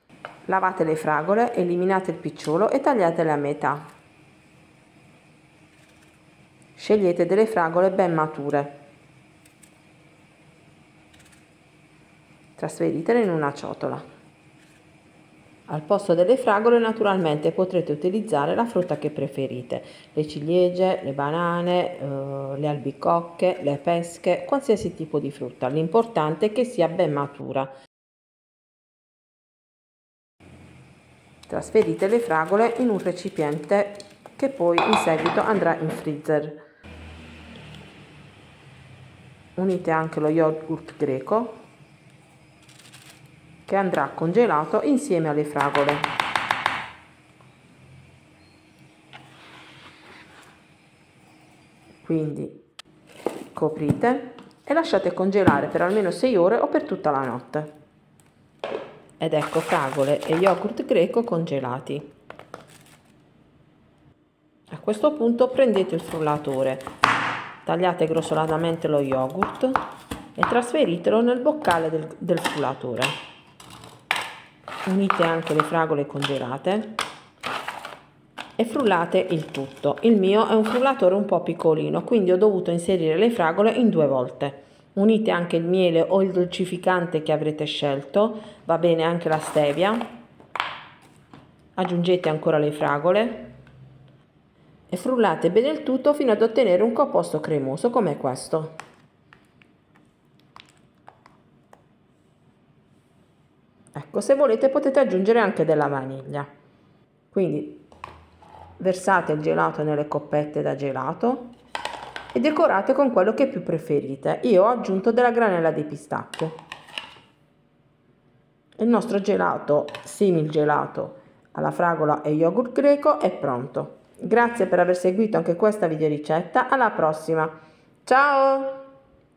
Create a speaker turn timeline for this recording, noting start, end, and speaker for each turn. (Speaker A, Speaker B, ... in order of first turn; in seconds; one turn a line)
Speaker A: 0.5-3.9
Speaker A: 6.8-8.8
Speaker A: 12.6-14.0
Speaker A: 15.7-27.7
Speaker A: 31.5-36.6
Speaker A: 39.5-41.6
Speaker A: 43.6-46.1
Speaker A: 52.0-52.6
Speaker A: 53.5-57.7
Speaker A: 59.2-62.1
Speaker A: 64.7-66.9
Speaker A: 67.6-69.8
Speaker A: 70.3-73.2
Speaker A: 74.8-77.0
Speaker A: 78.6-90.1
Speaker A: 91.8-93.5
Speaker A: 94.9-98.8
Speaker A: 103.9-106.5
Speaker A: 107.3-107.8
Speaker A: 108.8-111.5
Speaker A: 112.3-116.6
Speaker A: 118.8-128.9